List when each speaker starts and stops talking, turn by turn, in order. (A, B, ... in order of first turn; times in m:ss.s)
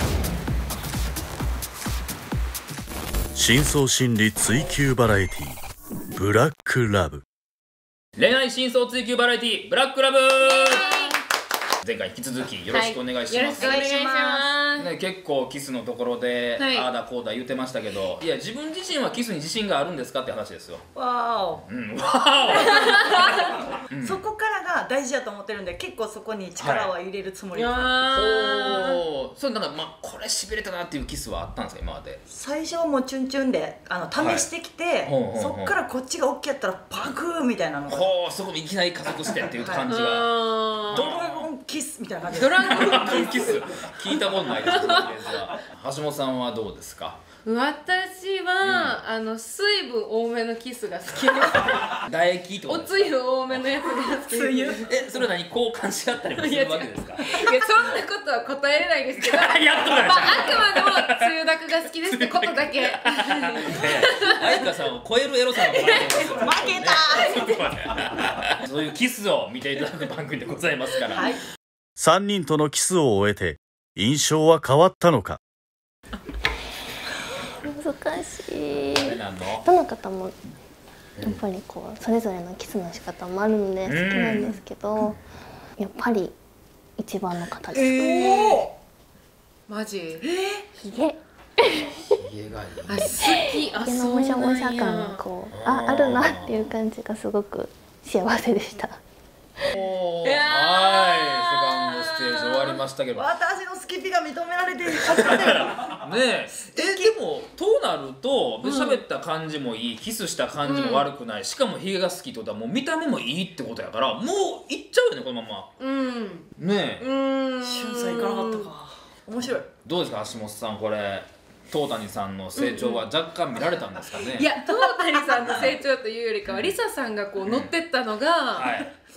0:03.3-0:05.6 A
0:06.1-0:07.2 A
0:08.2-0:10.9 B
0:10.4-0:11.2 C
0:11.8-0:13.8 B
0:12.7-0:14.9 C
0:13.6-0:14.6 D
0:14.8-0:20.8 B
0:16.6-0:16.9 C
0:20.9-0:21.6 D
0:21.6-0:24.2 B
0:22.5-0:23.2 D
0:22.5-0:23.5 C
0:24.0-0:28.2 D
0:26.6-0:26.9 B
0:27.5-0:29.0 C
0:28.1-0:32.2 B
0:32.3-0:38.1 D
0:34.2-0:34.5 B
0:35.0-0:35.8 B
0:37.9-0:41.5 B
0:39.6-0:39.8 D
0:39.9-0:41.0 C
0:40.9-0:43.3 D
0:42.4-0:43.6 C
0:42.7-0:47.2 B
0:44.6-0:45.1 C
0:47.4-0:52.0 C
0:48.6-0:49.0 B
0:51.7-0:53.7 B
0:52.6-0:54.9 C
0:54.2-0:55.1 D
0:54.8-0:58.0 B
0:56.4-1:04.7 C
0:59.2-1:01.3 B
1:02.1-1:11.3 B
1:05.5-1:06.4 C
1:06.4-1:07.5 D
1:07.1-1:07.5 C
1:11.1-1:11.4 D
1:12.0-1:15.4 A
1:17.6-1:20.4 E
1:18.9-1:19.7 B
1:21.2-1:25.2 E
1:23.8-1:24.5 B
1:25.8-1:26.3 E
1:27.0-1:28.6 E
1:27.7-1:28.7 D
1:29.7-1:30.2 C
1:30.2-1:30.6 D
1:30.8-1:32.2 E
1:32.1-1:33.2 B
1:32.9-1:35.2 C
1:33.1-1:39.0 E
1:35.5-1:36.7 B
1:39.7-1:43.3 B
1:40.2-1:42.8 C
1:43.1-1:46.0 D
1:45.2-1:55.7 B
1:46.7-1:47.1 D
1:48.6-1:49.0 C
1:50.6-1:51.1 C
1:55.8-1:56.5 C
1:56.6-1:57.0 B
1:57.0-1:58.7 C
1:57.6-1:59.7 D
1:59.4-2:04.5 B
2:02.6-2:03.0 C
2:04.3-2:08.7 C
2:06.5-2:06.7 B
2:07.4-2:07.7 B
2:08.5-2:08.9 B